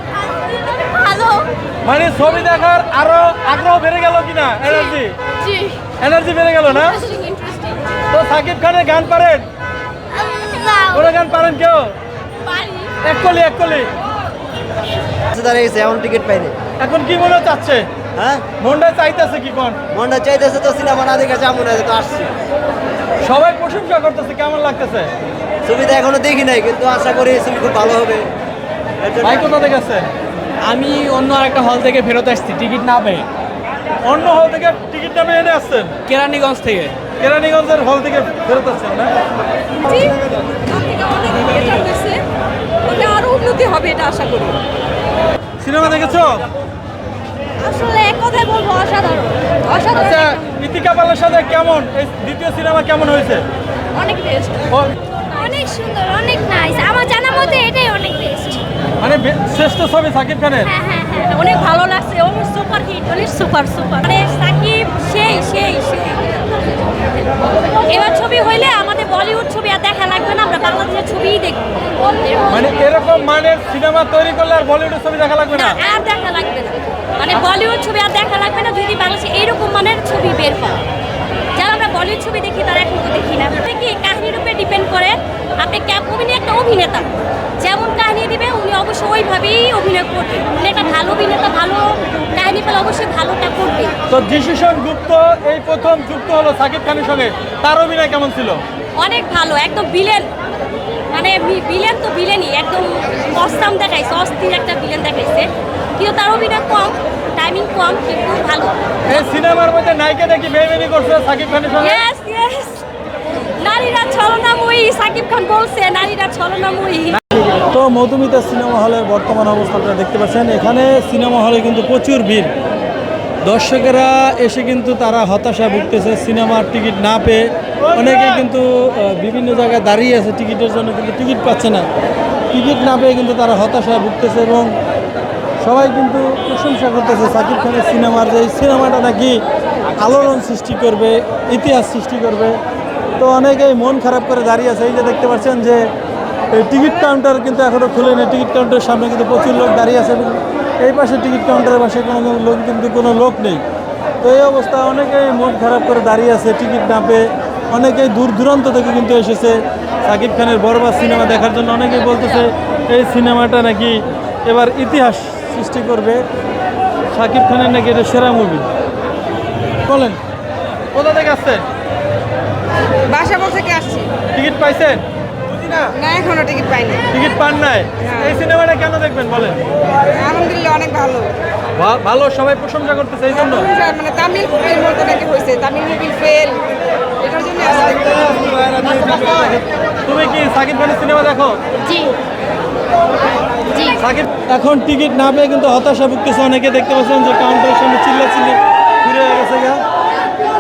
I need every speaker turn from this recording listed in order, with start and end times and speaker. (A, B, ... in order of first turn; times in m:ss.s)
0:00.2-0:01.5 A
0:01.8-0:05.1 B
0:04.8-0:05.8 A
0:06.0-0:07.0 B
0:06.7-0:07.8 A
0:08.1-0:09.5 B
0:10.1-0:11.0 A
0:10.9-0:11.9 B
0:12.5-0:12.9 A
0:13.0-0:13.9 B
0:15.3-0:16.6 C
0:16.8-0:17.9 B
0:18.2-0:18.5 C
0:18.6-0:19.8 B
0:19.9-0:22.3 C
0:23.2-0:25.1 B
0:25.7-0:28.2 C
0:29.0-0:29.5 C
0:29.2-0:30.1 B
0:30.6-0:33.3 D
0:34.0-0:35.9 B
0:36.0-0:37.0 D
0:37.2-0:39.1 B
0:39.9-0:40.1 A
0:40.7-0:41.2 A
0:41.4-0:42.1 E
0:42.9-0:43.3 A
0:43.4-0:44.5 E
0:45.6-0:46.4 B
0:47.6-0:50.4 A
0:49.9-0:53.4 B
0:54.0-0:54.6 A
0:55.3-0:58.6 A
0:59.0-1:00.7 B
1:00.6-1:06.5 A
1:07.9-1:12.6 A
1:12.5-1:15.8 B
1:15.5-1:20.8 A
1:21.6-1:27.1 A
1:27.6-1:34.0 A
1:34.1-1:38.6 B
1:39.0-1:40.3 A
1:41.1-1:48.8 A
1:49.1-1:52.0 B
1:51.8-1:52.8 A
1:53.6-1:57.2 A
1:57.3-2:02.5 B
2:03.4-2:11.9 B
2:12.5-2:14.7 B
2:15.6-2:22.6 B
2:23.2-2:25.9 B
2:26.5-2:33.6 B
2:34.2-2:46.2 B
2:47.1-2:48.6 B
2:49.8-2:50.2 B
2:50.9-2:51.6 B
2:53.1-2:54.1 E
2:54.3-2:55.0 B
2:55.6-2:55.9 B
2:56.0-2:57.0 E
2:57.1-2:59.6 B
2:58.0-2:58.3 E
3:00.1-3:01.3 E
3:01.8-3:03.7 B
3:03.6-3:06.7 E
3:07.2-3:08.6 E
3:08.5-3:11.6 B
3:11.8-3:12.1 A
3:13.7-3:14.0 A
3:14.0-3:19.8 B